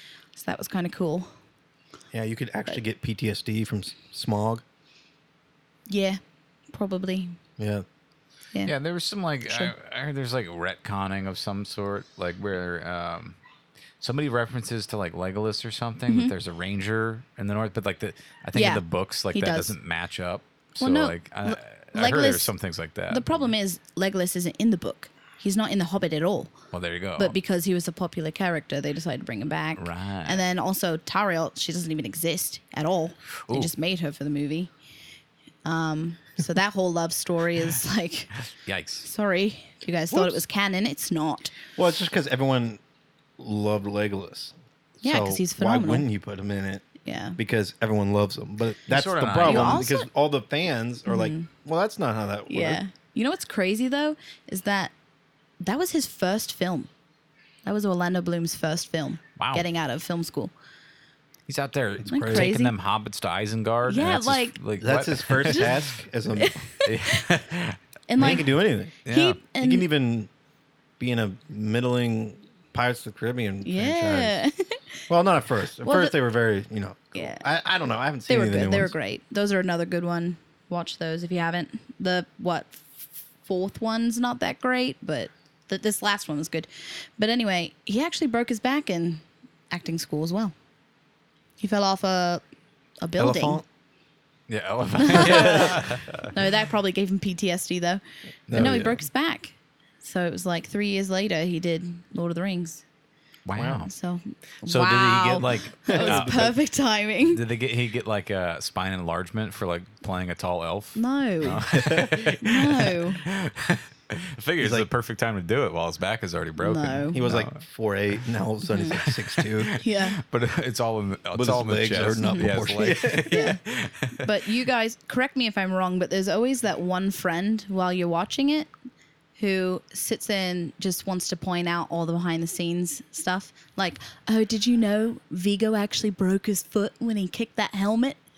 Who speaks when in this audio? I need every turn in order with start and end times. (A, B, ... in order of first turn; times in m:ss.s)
0:00.4-0:01.3 A
0:02.1-0:04.6 B
0:05.9-0:06.2 A
0:06.7-0:07.4 A
0:07.6-0:07.8 B
0:08.6-0:13.4 C
0:09.5-0:09.7 A
0:14.0-0:23.5 C
0:16.1-0:16.3 A
0:18.5-0:19.8 A
0:20.8-0:22.5 A
0:23.1-0:26.6 A
0:26.7-0:27.4 C
0:27.2-0:34.7 A
0:29.8-0:30.4 C
0:33.5-0:33.7 C
0:35.6-0:38.3 A
0:38.6-0:39.1 C
0:39.0-0:41.6 A
0:40.1-0:40.4 B
0:41.8-0:42.8 B
0:43.4-0:46.8 B
0:45.0-0:46.1 A
0:47.0-0:47.4 A
0:47.4-0:52.8 B
0:48.9-0:49.9 C
0:49.4-0:50.1 A
0:51.1-0:51.5 A
0:52.5-0:54.9 A
0:55.6-0:56.9 A
0:57.6-1:00.5 A
0:59.4-0:59.7 C
1:01.5-1:05.9 C
1:02.0-1:02.5 B
1:02.1-1:02.7 A
1:03.9-1:04.6 A
1:04.8-1:06.6 B
1:06.4-1:07.2 A
1:06.8-1:08.4 C
1:08.1-1:08.5 A
1:08.2-1:09.0 B
1:09.0-1:09.4 C
1:09.0-1:09.9 A
1:09.6-1:10.3 B
1:11.0-1:14.4 B
1:13.6-1:15.0 A
1:15.1-1:18.9 B
1:15.8-1:16.2 A
1:17.2-1:17.5 A
1:18.3-1:30.5 A
1:31.6-1:32.4 A
1:33.0-1:33.6 A
1:33.2-1:33.6 B
1:34.5-1:36.3 C
1:35.0-1:38.0 A
1:35.2-1:35.9 B
1:38.5-1:38.8 C
1:38.5-1:39.0 B
1:38.5-1:42.8 A
1:43.5-1:43.9 C
1:43.6-1:43.8 B
1:43.8-1:47.4 A
1:44.6-1:46.5 C
1:45.9-1:46.5 B
1:47.3-1:57.6 C
1:51.0-1:53.2 A
1:51.7-1:52.2 B
1:54.6-1:54.9 B
1:56.6-1:57.2 A
1:57.1-1:59.7 B
1:58.7-1:59.0 A
1:58.9-2:04.3 C
1:59.8-2:00.2 A
2:01.4-2:03.6 B
2:02.2-2:03.6 A
2:04.2-2:08.7 A
2:09.4-2:18.2 A